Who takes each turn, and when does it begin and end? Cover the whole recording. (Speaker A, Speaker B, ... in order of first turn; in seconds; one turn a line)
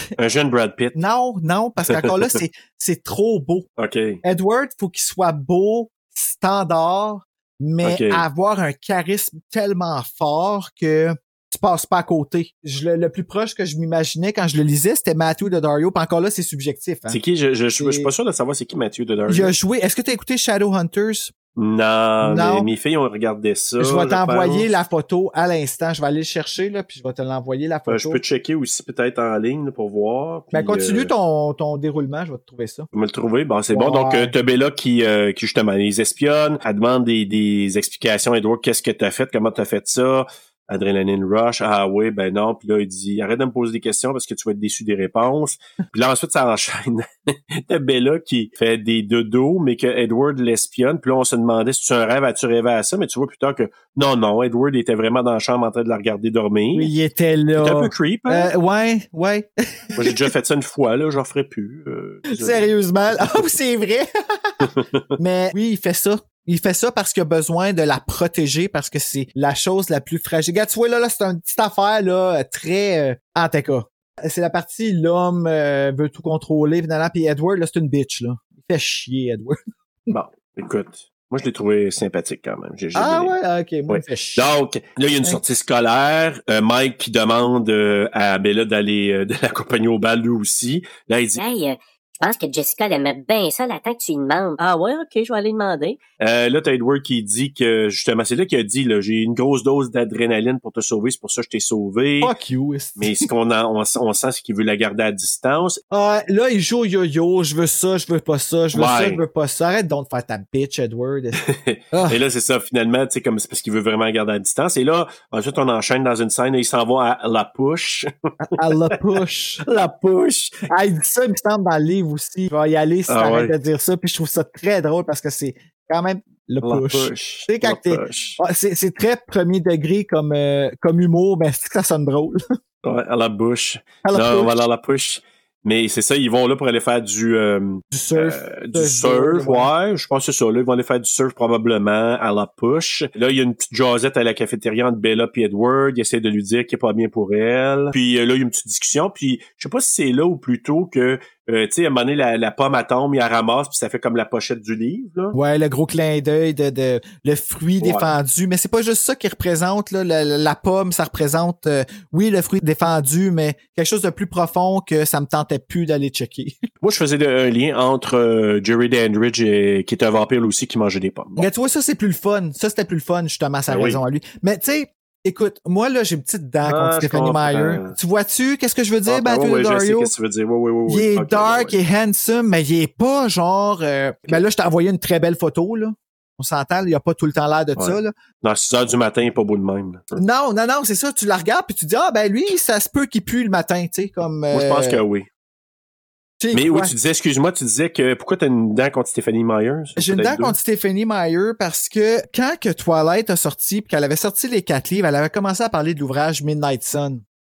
Speaker A: 0.2-1.0
Speaker B: 0.9-3.7
Speaker A: 1.9-2.4
Speaker A: 3.8-4.2
Speaker B: 4.2-17.2
Speaker A: 7.8-8.3
Speaker A: 17.1-19.5
Speaker B: 17.8-18.1
Speaker B: 19.3-21.3
Speaker A: 21.6-24.7
Speaker B: 22.2-22.7
Speaker B: 23.8-28.2
Speaker A: 27.9-31.1
Speaker B: 30.5-32.9
Speaker A: 32.9-56.9
Speaker B: 33.7-34.3
Speaker B: 56.7-60.3
Speaker A: 57.6-58.5
Speaker A: 60.0-62.7
Speaker B: 62.3-64.6
Speaker A: 64.6-65.1
Speaker B: 65.2-79.6
Speaker A: 80.1-83.3
Speaker B: 83.0-84.5
Speaker A: 83.9-91.4
Speaker C: 91.4-96.0
Speaker A: 96.2-102.3
Speaker B: 102.2-103.3
Speaker A: 103.0-105.8
Speaker B: 105.9-111.4
Speaker A: 108.7-109.2
Speaker A: 111.4-118.8
Speaker B: 111.9-112.2
Speaker B: 118.5-119.6
Speaker A: 119.6-120.6
Speaker B: 120.7-132.4
Speaker A: 123.1-123.5
Speaker A: 126.6-128.4
Speaker A: 132.8-155.4
Speaker B: 134.0-134.6
Speaker B: 137.9-139.7
Speaker B: 155.3-166.6
Speaker A: 157.8-158.1
Speaker A: 166.8-171.5
Speaker B: 171.4-180.1
Speaker A: 173.7-174.0
Speaker A: 176.6-177.9
Speaker A: 179.1-181.8
Speaker B: 180.9-188.1
Speaker A: 187.8-190.2
Speaker B: 190.2-195.0
Speaker A: 194.5-195.3
Speaker B: 196.4-196.9
Speaker A: 196.5-200.6
Speaker B: 200.0-207.2